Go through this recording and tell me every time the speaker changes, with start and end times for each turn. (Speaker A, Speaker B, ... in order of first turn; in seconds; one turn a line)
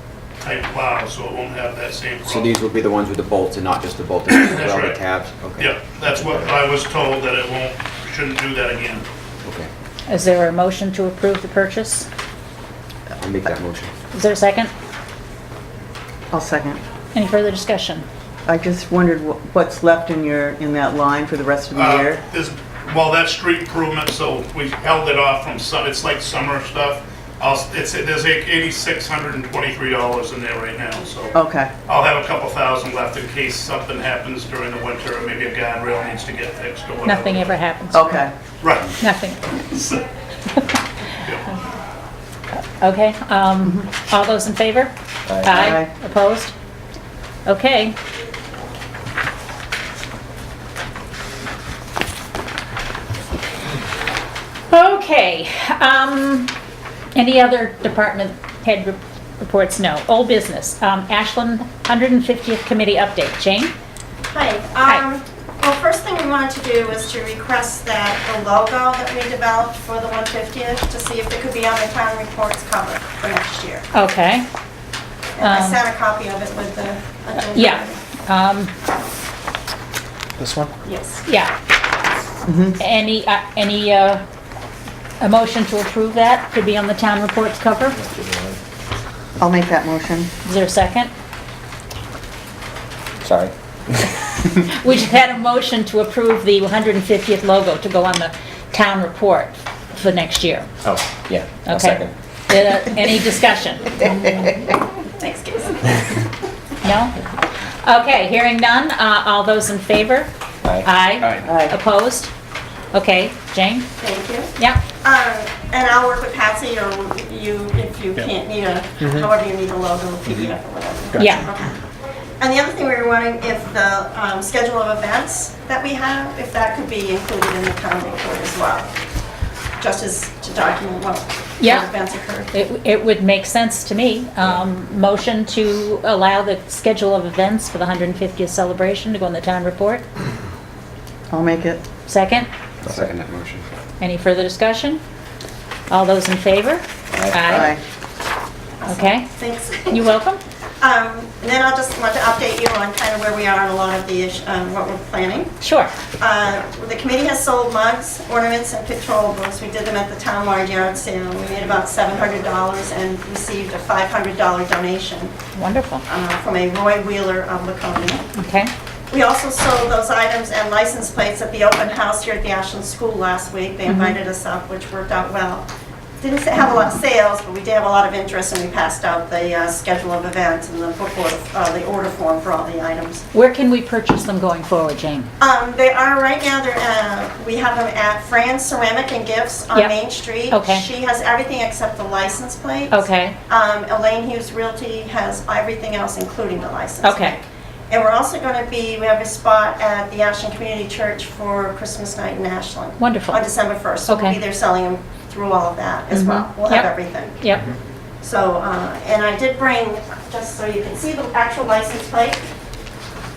Speaker A: 0.4-2.5
Speaker B: 2.3-6.7
Speaker A: 4.3-5.0
Speaker A: 5.6-9.1
Speaker C: 10.1-12.1
Speaker B: 13.2-13.9
Speaker C: 14.1-14.7
Speaker D: 16.3-16.8
Speaker C: 17.1-18.1
Speaker D: 18.5-22.2
Speaker A: 21.8-31.3
Speaker D: 31.3-31.7
Speaker A: 31.9-37.6
Speaker C: 37.0-38.2
Speaker D: 37.9-38.3
Speaker A: 38.6-39.0
Speaker C: 39.0-39.6
Speaker A: 39.7-40.0
Speaker C: 40.5-40.8
Speaker A: 41.2-41.5
Speaker C: 42.5-46.5
Speaker E: 45.3-45.6
Speaker D: 45.5-45.9
Speaker C: 47.5-48.0
Speaker C: 54.7-56.5
Speaker C: 57.1-63.7
Speaker F: 64.3-73.9
Speaker C: 73.9-74.5
Speaker F: 75.4-78.0
Speaker C: 75.4-75.8
Speaker C: 77.5-78.7
Speaker F: 80.8-81.2
Speaker C: 81.3-81.5
Speaker D: 82.5-82.8
Speaker C: 82.8-84.2
Speaker C: 85.2-88.0
Speaker E: 88.0-88.6
Speaker D: 89.4-90.3
Speaker C: 90.5-91.1
Speaker E: 93.2-94.0
Speaker C: 94.3-100.7
Speaker E: 100.8-102.1
Speaker C: 101.6-104.4
Speaker F: 105.2-106.2
Speaker C: 106.8-107.2
Speaker C: 107.8-112.3
Speaker D: 111.4-111.8
Speaker C: 112.9-113.9
Speaker F: 114.0-121.8
Speaker C: 114.6-114.8
Speaker C: 121.2-121.5
Speaker F: 122.4-128.9
Speaker F: 129.8-132.5
Speaker C: 131.6-140.1
Speaker D: 141.3-141.8
Speaker C: 142.1-142.5
Speaker B: 142.8-143.6
Speaker E: 142.9-143.2
Speaker C: 144.0-145.0
Speaker C: 145.9-147.7
Speaker E: 147.1-147.7
Speaker D: 147.4-147.8
Speaker F: 148.8-150.2
Speaker C: 148.9-149.3
Speaker C: 149.9-150.4
Speaker F: 150.8-155.5
Speaker C: 155.6-155.9
Speaker F: 156.2-165.3
Speaker C: 165.6-166.0
Speaker F: 166.1-168.3
Speaker C: 168.3-168.7
Speaker F: 169.1-175.7
Speaker C: 173.9-174.2
Speaker F: 176.2-183.2
Speaker C: 183.3-185.3
Speaker F: 185.4-207.4
Speaker C: 189.7-190.9
Speaker C: 192.9-193.4
Speaker C: 197.0-197.4
Speaker C: 203.0-203.4
Speaker C: 204.1-204.4
Speaker C: 206.1-207.7
Speaker F: 208.2-212.4